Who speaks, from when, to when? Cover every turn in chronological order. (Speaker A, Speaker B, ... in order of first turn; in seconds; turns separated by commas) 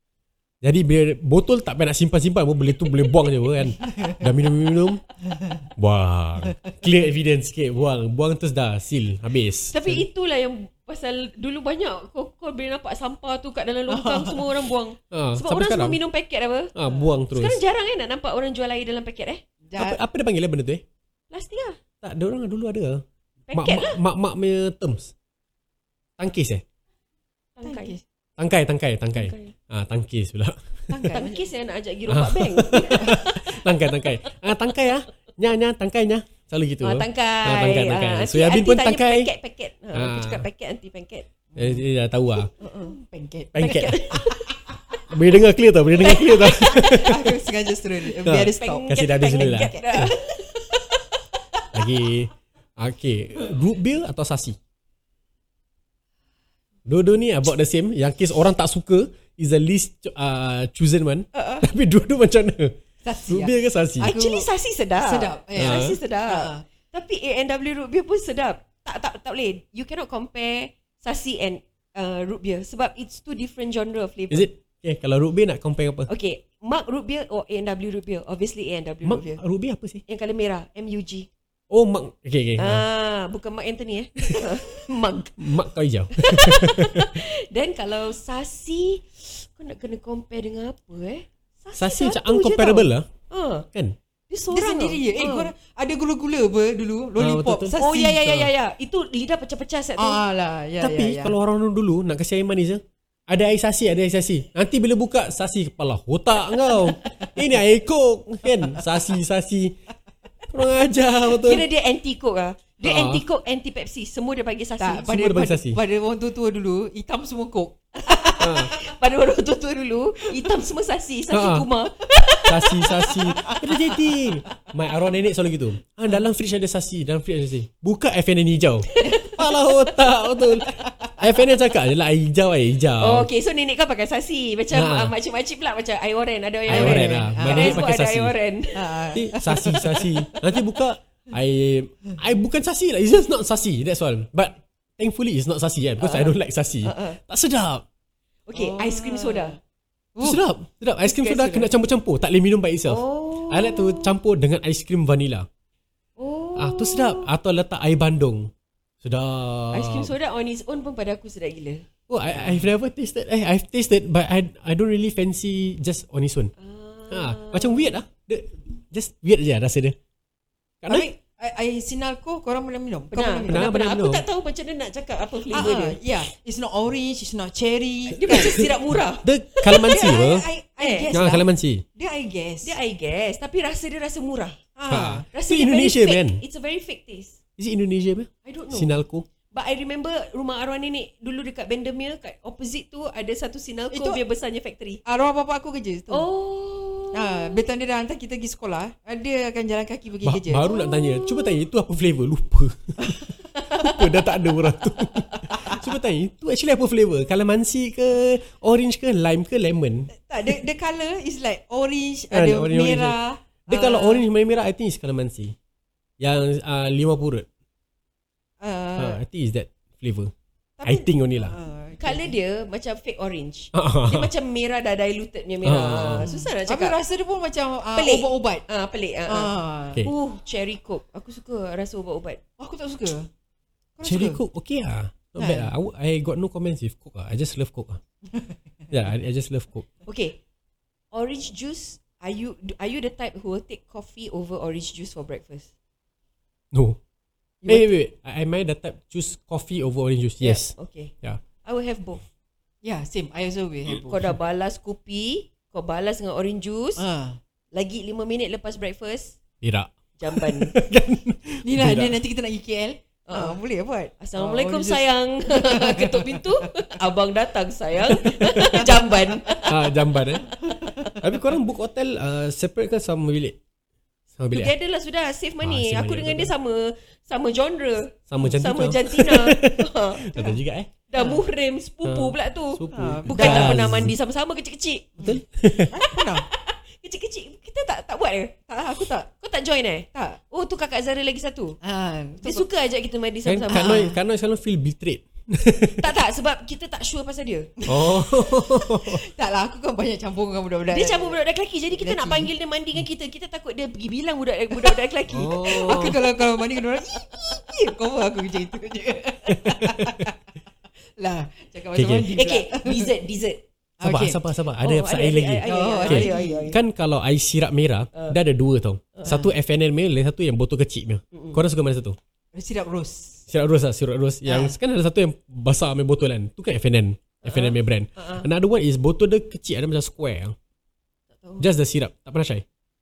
Speaker A: 0.6-5.0, Speaker B: 3.8-4.3, Speaker B: 5.3-5.7, Speaker A: 5.8-10.1, Speaker C: 9.7-16.7, Speaker B: 13.9-14.5, Speaker A: 15.1-16.0, Speaker A: 16.7-17.6, Speaker C: 17.3-19.4, Speaker B: 19.7-20.0, Speaker A: 19.8-20.8, Speaker C: 21.3-21.8, Speaker A: 22.0-25.1, Speaker C: 23.5-24.0, Speaker A: 26.2-26.6, Speaker C: 27.6-27.9, Speaker B: 27.6-28.0, Speaker A: 28.4-31.1, Speaker C: 29.1-29.5, Speaker B: 30.9-31.5, Speaker C: 31.1-34.3, Speaker A: 32.1-39.3, Speaker B: 32.8-33.2, Speaker C: 36.8-41.3, Speaker A: 39.9-40.4, Speaker B: 41.5-41.8, Speaker A: 41.5-42.5, Speaker C: 42.6-42.9, Speaker B: 42.6-43.7, Speaker A: 43.5-44.3, Speaker C: 43.6-44.5, Speaker B: 44.2-44.6, Speaker A: 45.1-47.3, Speaker C: 46.0-47.1, Speaker B: 46.5-50.1, Speaker A: 48.2-50.1, Speaker C: 48.5-50.8, Speaker A: 51.7-54.5, Speaker A: 56.9-62.7, Speaker C: 61.3-61.7, Speaker B: 63.0-66.6, Speaker A: 63.3-64.1, Speaker C: 64.0-74.5, Speaker A: 65.5-66.0, Speaker A: 74.3-76.1, Speaker C: 76.1-79.4, Speaker A: 79.0-80.0, Speaker C: 80.0-81.3, Speaker A: 81.7-82.8, Speaker C: 82.6-85.4, Speaker A: 85.4-87.2, Speaker C: 86.1-93.7, Speaker A: 91.7-93.0, Speaker C: 94.3-95.5, Speaker B: 94.5-98.5, Speaker A: 97.2-97.8, Speaker C: 97.7-100.2, Speaker B: 100.0-101.3, Speaker A: 100.8-109.7, Speaker C: 106.8-107.3, Speaker A: 110.5-111.7, Speaker C: 111.3-115.1, Speaker A: 112.8-113.2, Speaker B: 114.8-118.7, Speaker A: 115.0-115.8, Speaker C: 118.0-123.2, Speaker A: 118.4-118.7, Speaker A: 121.3-121.7, Speaker A: 122.5-133.3, Speaker B: 123.0-124.2, Speaker C: 128.9-130.1, Speaker B: 130.6-131.1, Speaker C: 133.0-139.0, Speaker A: 134.7-135.1, Speaker A: 136.7-138.3, Speaker B: 136.7-137.9, Speaker B: 138.7-140.1, Speaker A: 139.1-147.8, Speaker C: 146.0-147.2, Speaker C: 148.5-149.6, Speaker B: 148.5-149.6, Speaker B: 150.1-150.4, Speaker A: 150.2-155.5, Speaker C: 151.1-151.7, Speaker C: 152.8-154.2, Speaker C: 156.2-157.3, Speaker A: 156.6-160.1, Speaker C: 159.7-161.8, Speaker A: 162.1-166.5, Speaker B: 162.3-162.7, Speaker C: 166.6-167.9, Speaker A: 167.1-169.9, Speaker A: 170.8-171.1, Speaker B: 170.9-173.7, Speaker C: 173.1-176.0, Speaker A: 173.5-174.2, Speaker B: 175.5-178.7, Speaker C: 178.1-180.3, Speaker A: 178.3-180.5, Speaker B: 179.7-182.7, Speaker C: 180.8-181.1, Speaker A: 181.1-181.8, Speaker C: 182.6-184.6, Speaker B: 184.8-185.3, Speaker A: 184.9-186.4, Speaker C: 185.3-187.4, Speaker A: 187.6-189.2, Speaker C: 188.4-189.0, Speaker C: 189.5-195.0, Speaker B: 193.9-194.2, Speaker B: 195.0-196.3, Speaker C: 196.1-197.6, Speaker B: 197.1-200.7, Speaker A: 200.2-210.1, Speaker C: 200.6-201.6, Speaker B: 210.2-214.2, Speaker A: 212.3-215.5, Speaker A: 216.2-217.4, Speaker B: 218.6-219.2, Speaker A: 219.0-220.3, Speaker A: 220.8-221.6, Speaker B: 221.4-222.3, Speaker C: 222.0-227.0, Speaker A: 223.7-224.3, Speaker A: 225.6-226.3, Speaker B: 226.2-228.7, Speaker C: 227.9-232.4, Speaker B: 229.3-230.1, Speaker B: 232.6-233.3, Speaker B: 234.0-234.4, Speaker A: 234.0-238.0, Speaker B: 235.4-235.7, Speaker A: 238.9-239.8, Speaker C: 240.1-240.4, Speaker C: 241.1-245.7, Speaker A: 246.7-247.0, Speaker B: 247.6-247.9, Speaker A: 247.7-251.4, Speaker C: 250.4-251.1, Speaker C: 251.6-252.2, Speaker B: 252.8-254.3, Speaker C: 253.9-257.0, Speaker B: 257.0-257.4, Speaker C: 257.7-259.4, Speaker A: 259.6-262.2, Speaker C: 260.2-260.7, Speaker B: 261.6-266.5, Speaker C: 263.2-263.6, Speaker C: 264.2-269.7, Speaker A: 268.1-268.9, Speaker B: 269.1-269.5, Speaker A: 269.7-270.6, Speaker B: 270.6-271.1, Speaker A: 271.1-273.6, Speaker A: 274.4-274.7, Speaker C: 274.5-280.3, Speaker A: 275.6-276.5, Speaker A: 278.3-280.9, Speaker C: 281.1-285.3, Speaker B: 281.1-281.4, Speaker A: 282.0-284.1, Speaker B: 282.9-283.9, Speaker B: 285.2-286.5, Speaker A: 285.2-286.0, Speaker C: 286.0-288.5, Speaker B: 288.7-289.3, Speaker C: 289.3-291.8, Speaker B: 290.1-290.4, Speaker B: 291.8-292.7, Speaker C: 292.4-294.1, Speaker A: 293.4-296.1, Speaker B: 293.7-294.1, Speaker C: 296.0-297.7, Speaker B: 297.8-301.4, Speaker A: 297.9-299.2, Speaker C: 300.9-306.3, Speaker B: 302.0-302.5, Speaker A: 305.3-306.0, Speaker B: 305.4-310.3, Speaker A: 309.6-310.2, Speaker B: 311.2-313.1, Speaker A: 311.9-312.3, Speaker C: 312.3-313.6, Speaker B: 314.0-314.4, Speaker A: 314.0-322.2, Speaker C: 314.8-316.8, Speaker B: 315.6-316.7, Speaker B: 319.2-319.5, Speaker C: 321.3-321.6, Speaker B: 322.5-323.4, Speaker A: 323.5-330.5, Speaker B: 324.4-324.8, Speaker C: 327.4-328.5, Speaker C: 331.3-331.6, Speaker A: 331.6-332.6